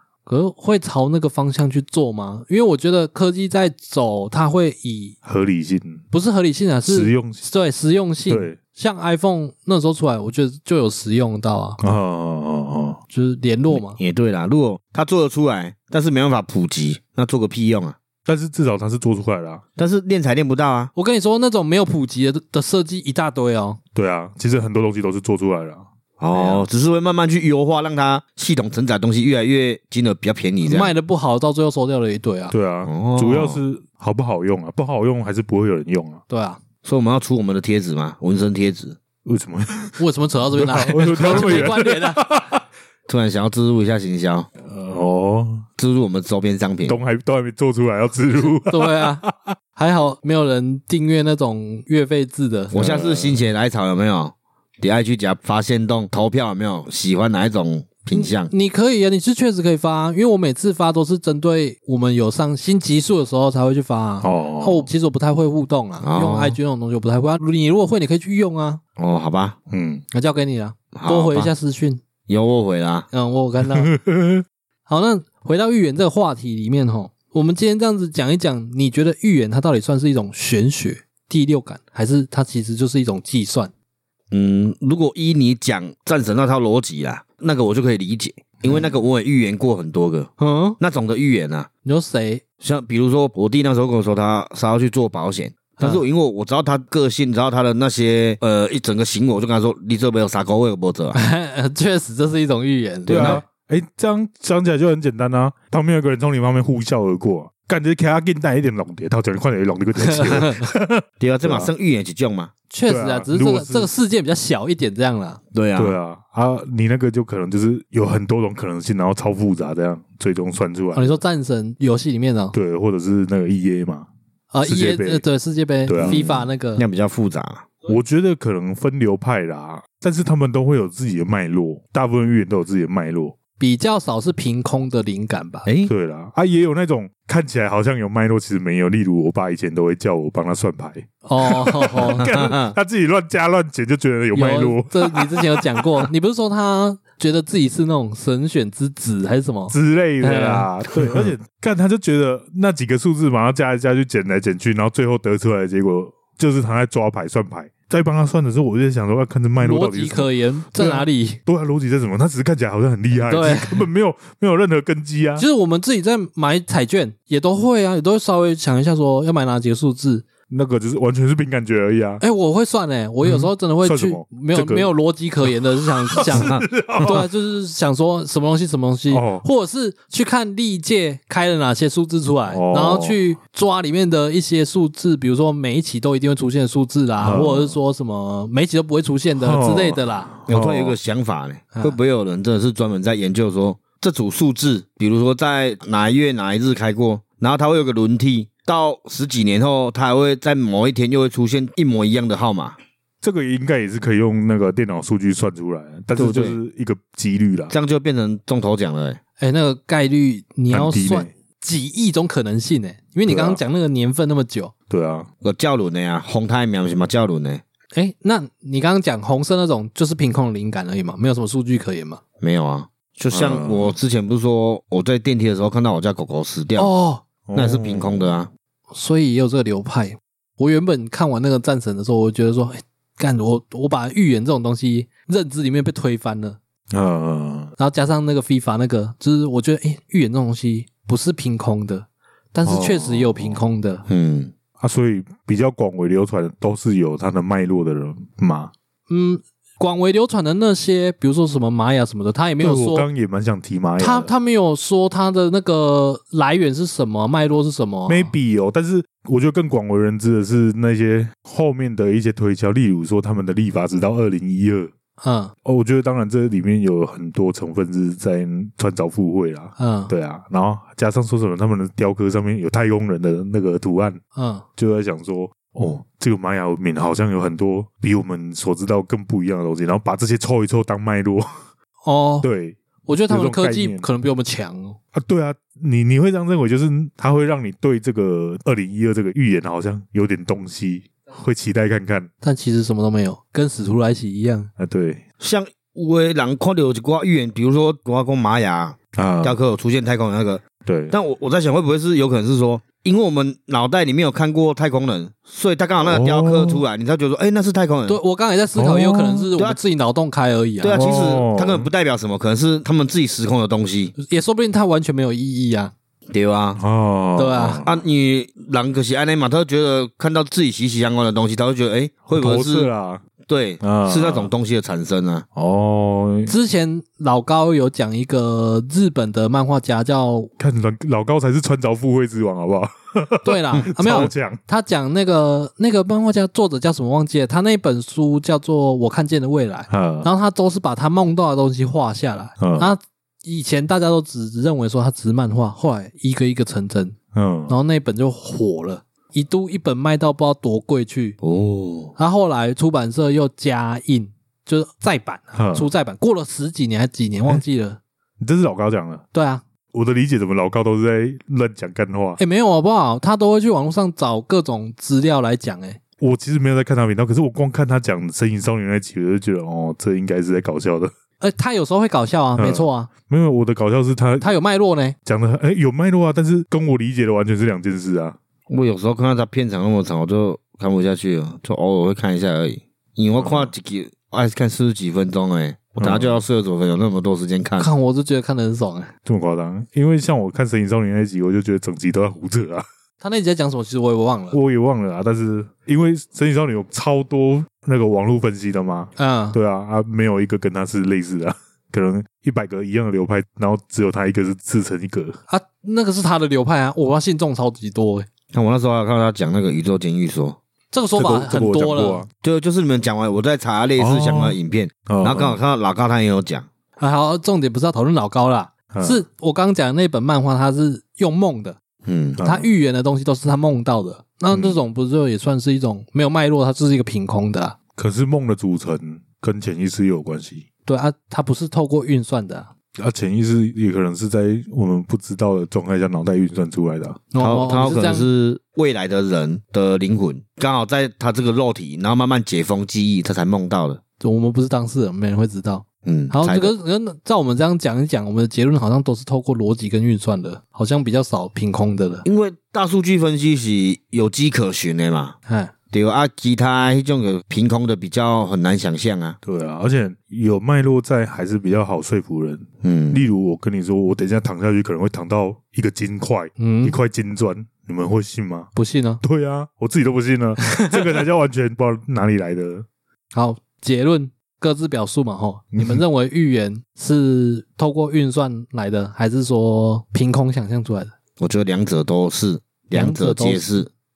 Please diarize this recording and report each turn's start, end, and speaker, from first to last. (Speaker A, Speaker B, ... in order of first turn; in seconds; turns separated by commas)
Speaker A: 0.2-5.2, Speaker B: 5.2-6.0, Speaker A: 6.1-11.8, Speaker B: 6.8-7.4, Speaker B: 8.3-8.6, Speaker B: 11.8-13.0, Speaker A: 13.1-14.0, Speaker C: 13.7-18.0, Speaker B: 18.2-19.6, Speaker C: 19.8-20.9, Speaker A: 20.9-23.8, Speaker B: 23.9-26.6, Speaker C: 26.2-30.9, Speaker A: 30.6-32.5, Speaker B: 32.5-36.2, Speaker C: 32.8-33.6, Speaker A: 36.3-36.6, Speaker C: 36.8-39.0, Speaker B: 39.2-42.6, Speaker A: 40.0-42.2, Speaker C: 43.1-44.5, Speaker B: 44.6-45.6, Speaker C: 45.8-47.0, Speaker B: 46.9-49.5, Speaker A: 48.5-49.2, Speaker A: 49.8-52.7, Speaker B: 52.7-53.5, Speaker C: 52.7-58.5, Speaker A: 58.1-68.8, Speaker B: 64.2-64.9, Speaker C: 66.0-66.6, Speaker C: 69.0-69.5, Speaker B: 69.7-70.0, Speaker A: 70.1-72.0, Speaker C: 70.9-71.5, Speaker C: 72.3-73.1, Speaker A: 73.1-73.9, Speaker B: 73.7-74.4, Speaker A: 74.9-83.7, Speaker C: 84.3-91.7, Speaker A: 90.4-90.8, Speaker A: 91.8-92.4, Speaker C: 92.6-101.2, Speaker A: 101.1-103.4, Speaker C: 103.0-103.4, Speaker B: 103.1-111.7, Speaker A: 110.0-110.7, Speaker C: 111.2-112.5, Speaker A: 112.7-115.4, Speaker B: 112.9-113.9, Speaker C: 115.5-116.0, Speaker B: 115.8-121.2, Speaker A: 120.9-122.5, Speaker B: 122.5-124.1, Speaker A: 124.5-126.8, Speaker B: 124.7-125.2, Speaker B: 125.8-126.2, Speaker C: 126.0-127.7, Speaker B: 127.8-133.3, Speaker A: 133.6-135.7, Speaker C: 135.6-135.9, Speaker B: 135.8-146.1, Speaker A: 141.2-142.3, Speaker C: 142.2-142.8, Speaker A: 144.3-151.3, Speaker B: 149.7-165.4, Speaker A: 159.6-161.4, Speaker A: 163.3-163.9, Speaker A: 165.4-170.2, Speaker B: 170.5-172.2, Speaker A: 172.2-190.3, Speaker B: 173.2-177.3, Speaker C: 176.2-176.7, Speaker B: 179.1-179.4, Speaker B: 182.5-183.2, Speaker B: 187.2-187.7, Speaker B: 189.4-190.9, Speaker C: 190.5-202.8, Speaker B: 203.2-207.7, Speaker C: 206.2-206.6, Speaker C: 207.7-209.2, Speaker A: 209.4-214.7, Speaker B: 210.7-211.3, Speaker B: 213.2-213.6, Speaker B: 214.9-215.3, Speaker C: 215.4-217.6, Speaker A: 217.9-222.2, Speaker C: 222.4-226.9, Speaker B: 223.3-223.9, Speaker A: 226.8-227.2, Speaker B: 227.5-228.3, Speaker C: 227.5-228.5, Speaker A: 228.9-236.6, Speaker B: 236.9-237.7, Speaker A: 237.8-244.0, Speaker B: 242.6-243.6, Speaker C: 244.1-244.5, Speaker B: 244.8-248.7, Speaker A: 249.1-253.1, Speaker B: 252.6-254.3, Speaker A: 254.0-258.3, Speaker B: 258.1-264.9, Speaker A: 265.2-265.5, Speaker B: 265.6-274.2, Speaker A: 269.8-270.1, Speaker A: 274.3-274.6, Speaker B: 274.8-281.6, Speaker A: 282.0-282.5, Speaker B: 282.4-282.8, Speaker A: 283.1-285.0, Speaker B: 283.3-284.1, Speaker B: 285.1-292.3, Speaker A: 292.4-294.7, Speaker B: 294.8-295.2, Speaker C: 295.4-308.2, Speaker B: 299.1-299.6, Speaker B: 300.8-301.1, Speaker B: 306.0-306.8, Speaker A: 308.1-311.1, Speaker B: 308.8-309.5, Speaker C: 310.8-314.1, Speaker B: 310.9-311.9, Speaker A: 314.2-315.9, Speaker C: 316.3-316.8, Speaker B: 316.8-318.0, Speaker A: 317.4-317.8, Speaker C: 317.8-322.9, Speaker B: 322.3-323.2, Speaker C: 323.4-325.4, Speaker B: 323.8-324.5, Speaker B: 325.5-326.5, Speaker A: 326.5-330.5, Speaker B: 330.6-334.6, Speaker A: 333.4-347.1, Speaker B: 339.9-340.3, Speaker B: 342.6-342.9, Speaker B: 347.3-347.8, Speaker A: 347.7-351.4, Speaker C: 351.4-352.1, Speaker A: 352.2-358.0, Speaker B: 355.5-355.9, Speaker B: 358.4-359.2, Speaker A: 359.3-359.6, Speaker B: 359.9-362.4, Speaker A: 362.4-366.0, Speaker B: 366.2-371.1, Speaker A: 371.4-373.1, Speaker B: 372.6-374.5, Speaker A: 374.4-375.1, Speaker B: 375.2-378.4, Speaker C: 378.7-387.9, Speaker B: 383.4-383.7, Speaker B: 386.0-386.4, Speaker A: 387.8-389.1, Speaker B: 389.2-392.8, Speaker A: 393.2-394.6, Speaker B: 394.5-405.4, Speaker A: 399.2-399.6, Speaker A: 405.5-408.3, Speaker C: 408.5-410.6, Speaker A: 410.9-412.2, Speaker B: 411.2-412.3, Speaker C: 412.4-416.7, Speaker B: 414.0-415.6, Speaker A: 417.0-421.8, Speaker B: 418.9-419.2, Speaker C: 422.0-422.4, Speaker B: 422.4-422.6, Speaker A: 422.4-427.8, Speaker B: 424.5-424.8, Speaker B: 427.9-430.6, Speaker A: 430.9-432.7, Speaker B: 433.0-437.2, Speaker A: 437.3-438.3, Speaker C: 437.4-444.0, Speaker A: 444.2-452.2, Speaker C: 446.0-446.7, Speaker C: 452.2-455.3, Speaker A: 455.5-455.7, Speaker C: 455.9-459.4, Speaker B: 459.4-472.9, Speaker C: 462.8-463.2, Speaker A: 466.6-467.0, Speaker A: 468.7-469.2, Speaker A: 473.3-481.1, Speaker B: 475.7-476.0, Speaker C: 481.4-483.9, Speaker A: 482.9-483.8